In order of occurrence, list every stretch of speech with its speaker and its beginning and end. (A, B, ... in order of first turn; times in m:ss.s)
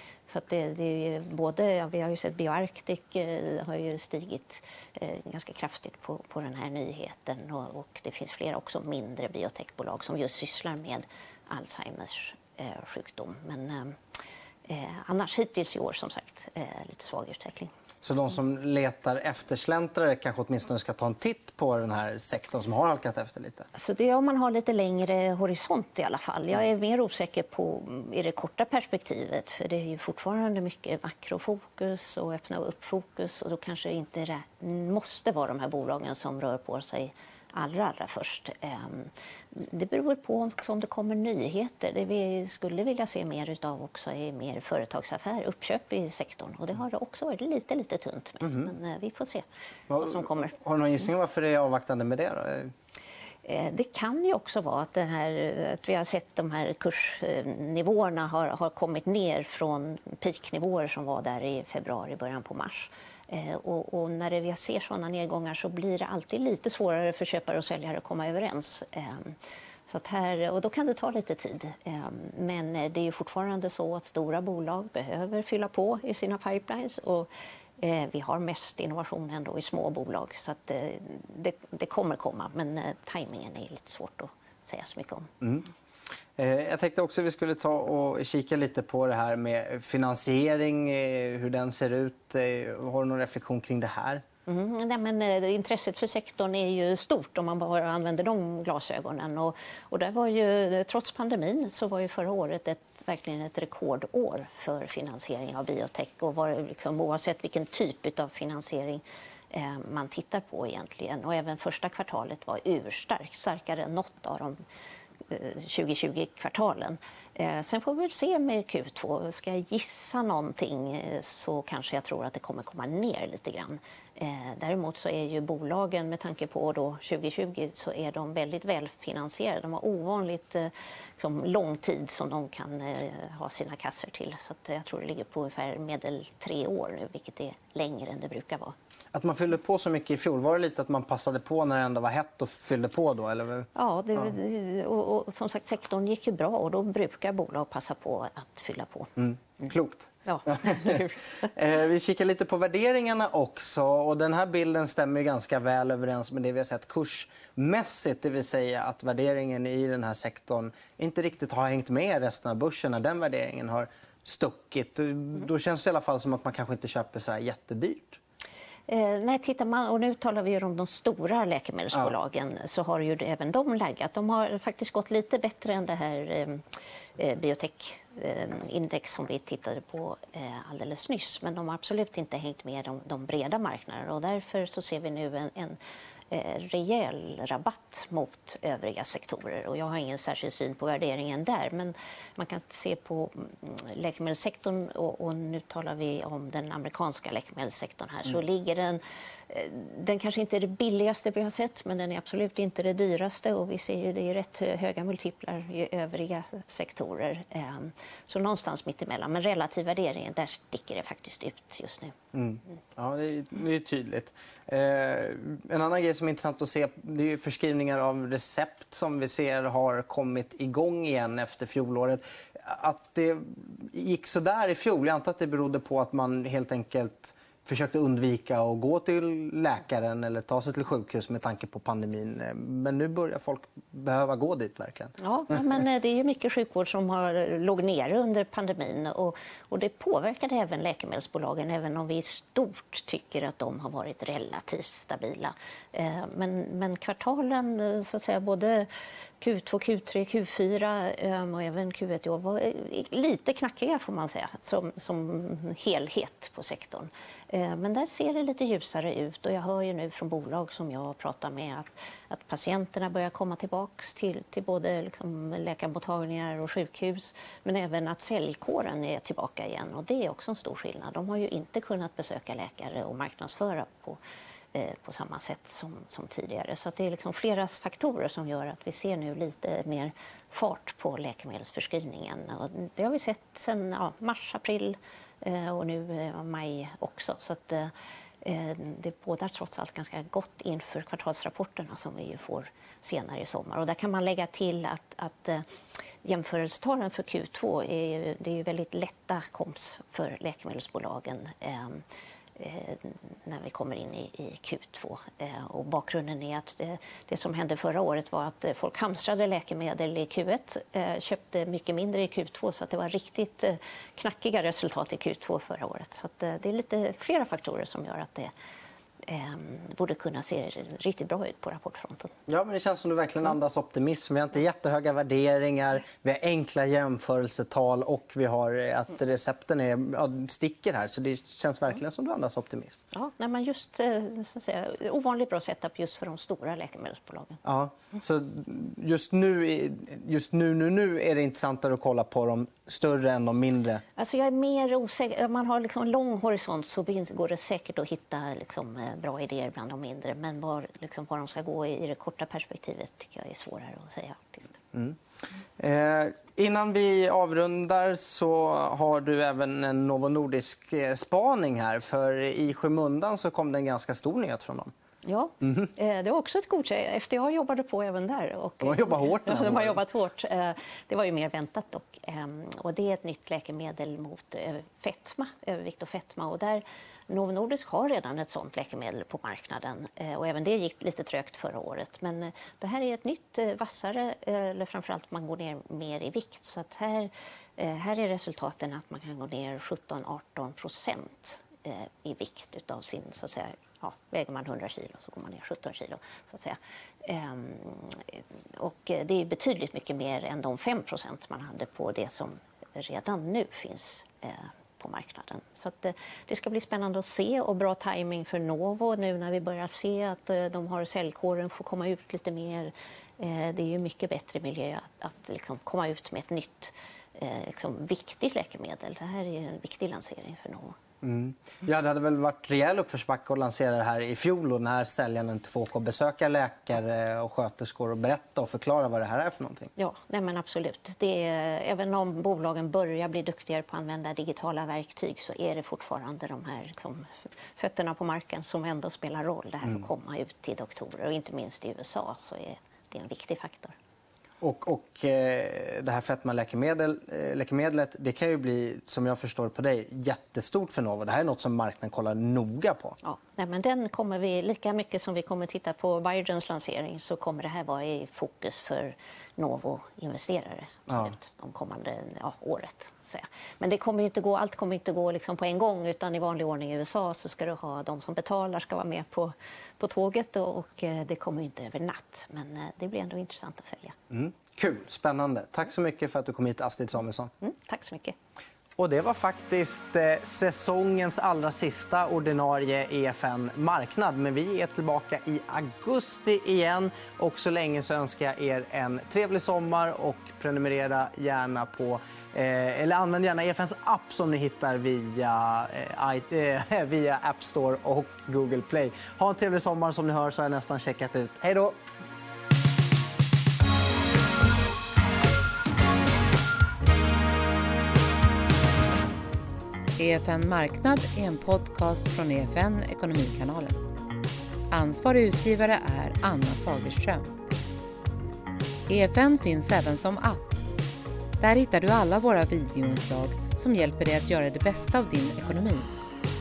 0:00.3-0:14.0 A
0:14.7-0:17.7 A
0:18.0-0:23.6 B
0:23.7-0:49.4 A
0:48.4-0:48.7 B
0:49.9-0:52.7 B
0:50.0-0:50.6 A
0:53.4-1:09.4 A
1:09.9-1:17.3 A
1:17.8-1:25.3 A
1:25.4-1:25.7 B
1:26.4-1:34.2 B
1:34.5-1:54.6 A
1:55.3-2:18.7 A
2:19.1-2:24.3 B
2:23.7-2:29.7 A
2:29.2-2:48.2 B
2:30.2-2:31.2 A
2:48.9-2:56.6 A
2:57.2-3:05.8 A
3:06.3-3:32.2 A
3:32.3-3:55.6 B
3:55.2-4:34.2 A
4:34.7-4:55.6 A
4:56.2-5:02.0 A
5:02.6-5:18.5 A
5:19.2-5:22.3 A
5:22.5-5:33.0 B
5:33.1-5:37.6 A
5:37.6-5:44.0 B
5:44.2-5:54.8 A
5:54.9-5:55.2 B
5:55.8-6:04.9 B
6:05.2-7:01.0 A
6:05.6-6:05.9 B
6:08.8-6:10.0 B
7:01.2-7:09.9 B
7:10.0-7:23.9 A
7:24.6-7:33.2 B
7:33.2-7:54.1 A
7:41.1-7:41.3 B
7:54.3-7:57.5 B
7:57.6-7:58.4 A
7:59.0-8:22.0 B
8:30.2-8:34.0 C
8:34.9-8:37.5 C
8:39.1-8:40.6 C
8:41.6-8:46.1 C